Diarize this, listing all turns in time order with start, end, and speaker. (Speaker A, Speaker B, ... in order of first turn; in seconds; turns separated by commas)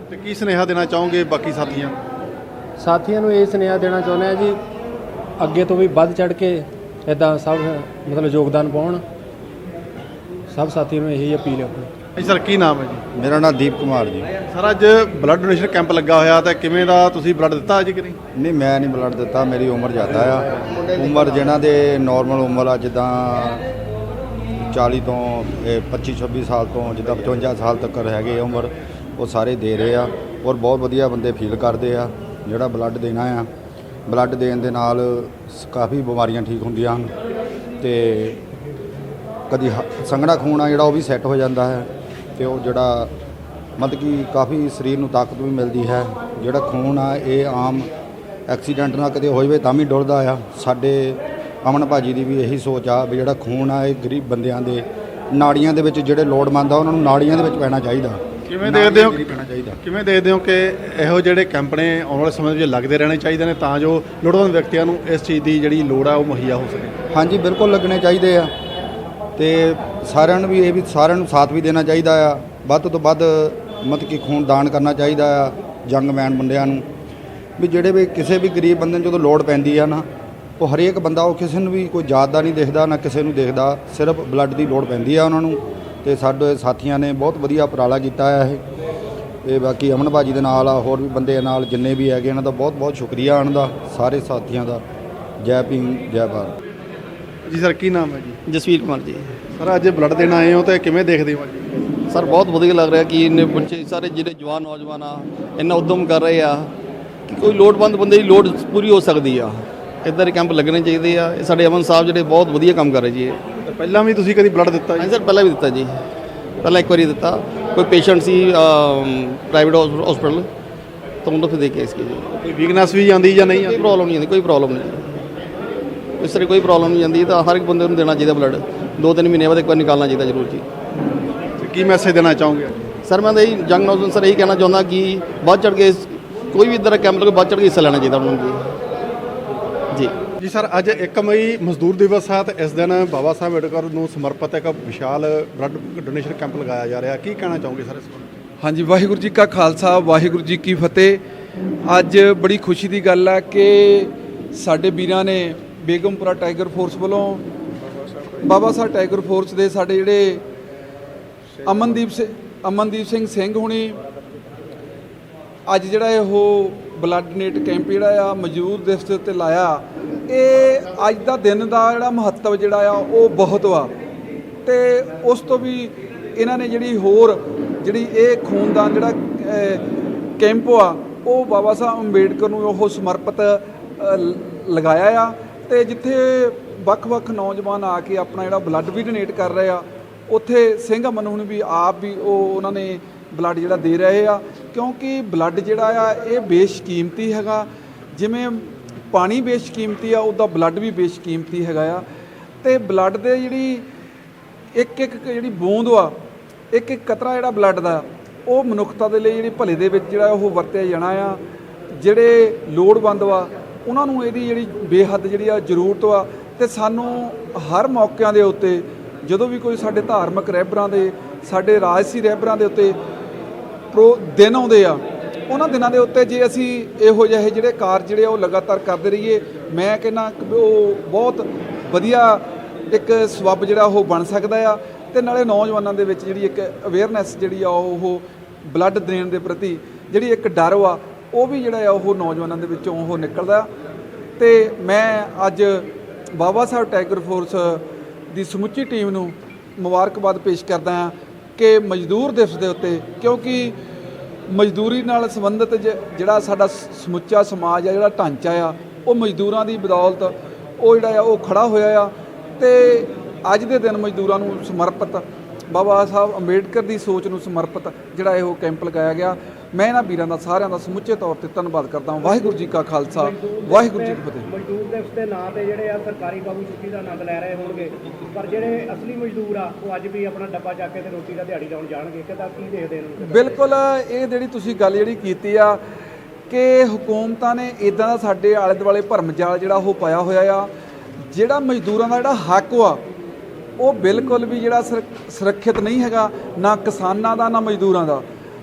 Speaker A: 0.1-2.0, Speaker B: 2.8-4.6, Speaker B: 5.4-9.0, Speaker B: 10.5-11.9, Speaker A: 12.2-13.0, Speaker C: 13.1-14.3, Speaker A: 14.5-18.2, Speaker C: 18.3-23.6, Speaker C: 24.7-33.5, Speaker C: 34.1-37.1, Speaker C: 37.8-38.4, Speaker C: 39.5-43.1, Speaker C: 43.8-47.9, Speaker C: 48.5-59.8, Speaker A: 58.5-59.2, Speaker A: 59.8-67.0, Speaker C: 67.1-68.5, Speaker C: 69.3-76.8, Speaker C: 77.6-80.1, Speaker C: 80.6-88.6, Speaker C: 89.4-94.8, Speaker C: 95.4-96.5, Speaker A: 97.5-98.4, Speaker D: 98.5-99.3, Speaker A: 99.6-101.9, Speaker D: 102.1-106.7, Speaker D: 107.3-113.4, Speaker A: 113.7-115.1, Speaker D: 115.0-115.9, Speaker D: 116.6-120.5, Speaker D: 121.2-122.3, Speaker A: 122.4-123.8, Speaker D: 123.5-125.1, Speaker D: 126.2-130.6, Speaker A: 131.6-132.9, Speaker D: 133.0-138.6, Speaker A: 140.4-148.3, Speaker E: 148.6-151.2, Speaker E: 151.9-157.4, Speaker E: 158.4-160.4, Speaker E: 161.6-164.0, Speaker E: 165.7-173.9, Speaker E: 174.6-179.8, Speaker E: 180.4-202.0, Speaker E: 202.6-203.8, Speaker E: 204.8-206.2, Speaker E: 206.7-211.4, Speaker E: 212.0-223.0, Speaker E: 223.9-243.7, Speaker E: 244.4-253.8, Speaker E: 254.5-274.5, Speaker F: 272.2-272.6, Speaker F: 273.1-283.7, Speaker E: 283.2-285.8, Speaker E: 286.5-290.7, Speaker E: 291.3-293.0, Speaker E: 293.8-298.2